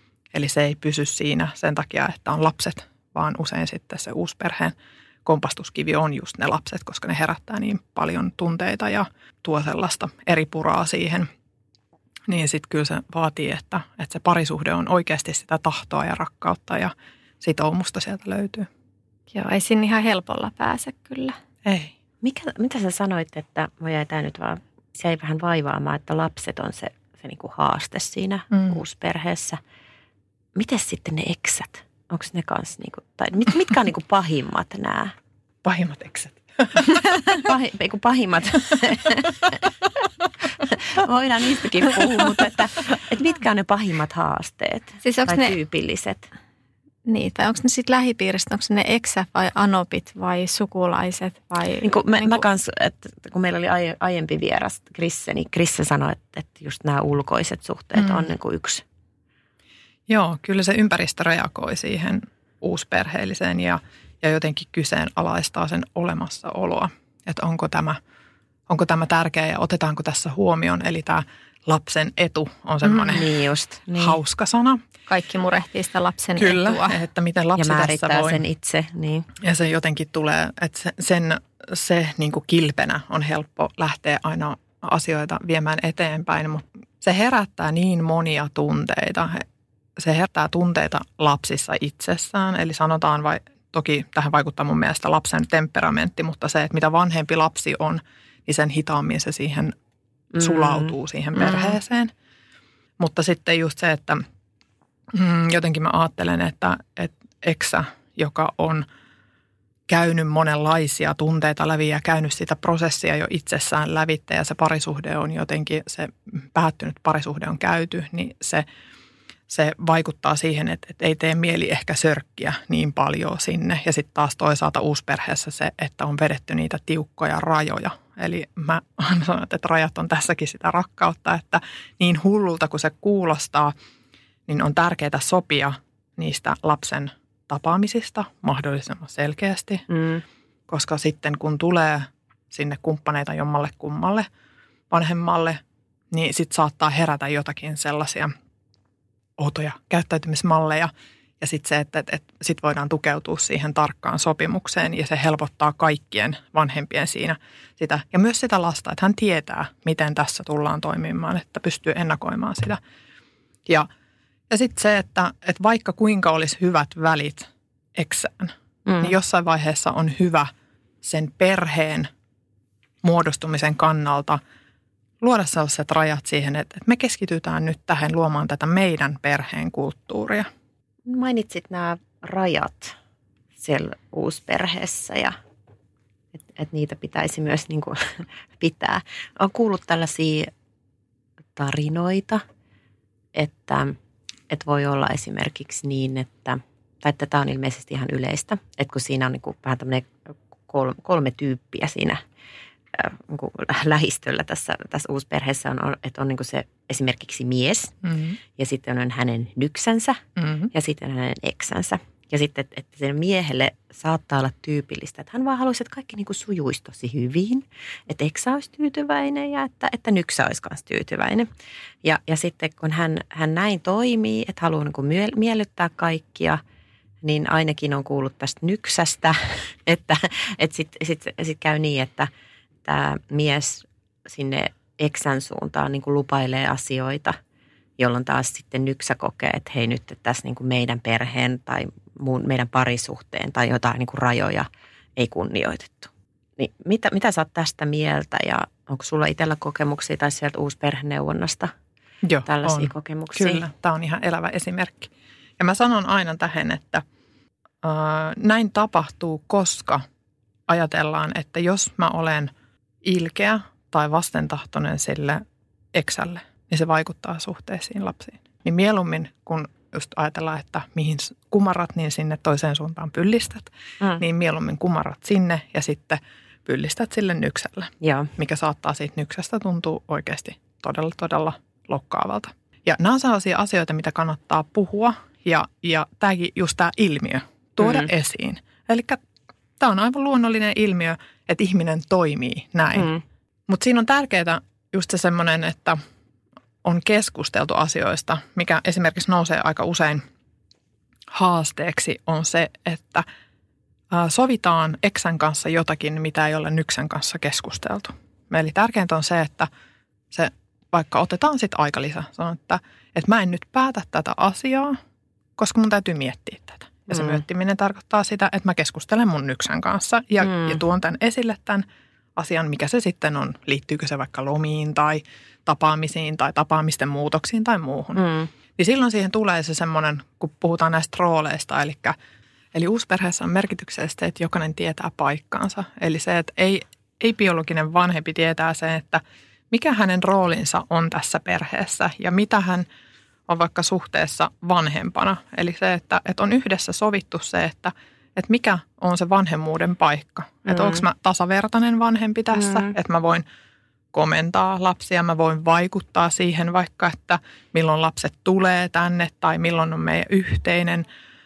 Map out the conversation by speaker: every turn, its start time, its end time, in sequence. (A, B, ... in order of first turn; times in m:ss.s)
0:00.3-0:11.3 A
0:12.3-0:18.7 A
0:19.3-0:21.4 B
0:21.6-0:21.9 A
0:22.2-0:29.6 C
0:28.5-0:28.8 A
0:30.5-0:35.1 C
0:35.6-0:36.9 A
0:37.3-0:39.6 C
0:40.6-0:46.3 C
0:45.0-0:45.6 B
0:47.0-0:52.4 B
0:51.8-0:58.8 C
0:58.0-0:58.2 A
1:00.1-1:08.0 A
1:08.7-1:13.2 A
1:12.8-1:13.1 B
1:13.1-1:14.2 C
1:13.9-1:14.8 A
1:15.1-1:17.0 B
1:16.4-1:18.4 A
1:17.6-1:19.3 C
1:19.4-1:29.4 A
1:30.0-1:39.7 A
1:40.3-1:40.9 C
1:40.4-1:42.1 A
1:43.0-1:44.2 A
1:45.1-1:48.8 A
1:49.9-1:58.6 A
1:59.5-2:13.7 A
2:14.5-2:19.8 A
2:19.9-2:20.2 C
2:20.7-2:24.3 A
2:24.9-2:25.6 A
2:26.1-2:28.3 A
2:29.4-2:42.8 A
2:44.5-2:50.5 A
2:48.8-2:49.2 C
2:51.0-2:52.1 A
2:53.0-2:54.4 A
2:55.2-3:00.5 A
3:01.1-3:03.0 C
3:03.6-3:05.4 C
3:06.4-3:10.5 C
3:11.6-3:12.4 C
3:13.4-3:14.0 C
3:14.5-3:22.2 C
3:22.9-3:27.9 C
3:28.0-3:28.4 A
3:28.6-3:41.5 C
3:30.4-3:30.7 A
3:42.0-3:46.6 C
3:47.2-3:52.3 C
3:52.8-3:57.4 C
3:58.0-4:11.7 C
4:12.2-4:17.0 A
4:12.4-4:13.7 C
4:17.8-4:20.0 A
4:20.7-4:22.5 A
4:23.0-4:25.4 A
4:25.9-4:49.2 A
4:38.0-4:38.3 C
4:47.8-4:48.1 C
4:49.8-4:53.1 A
4:52.9-4:53.2 C
4:53.7-4:56.0 A
4:56.8-5:00.2 A
5:01.3-5:03.2 A
5:04.1-5:09.7 A
5:10.3-5:15.0 A
5:15.6-5:21.8 A
5:17.1-5:17.4 C
5:20.4-5:20.8 C
5:22.4-5:28.2 A
5:28.2-5:28.5 C
5:28.8-5:32.2 A
5:32.7-5:42.8 A
5:43.5-5:53.4 A
5:50.7-5:51.0 C
5:54.1-6:01.1 A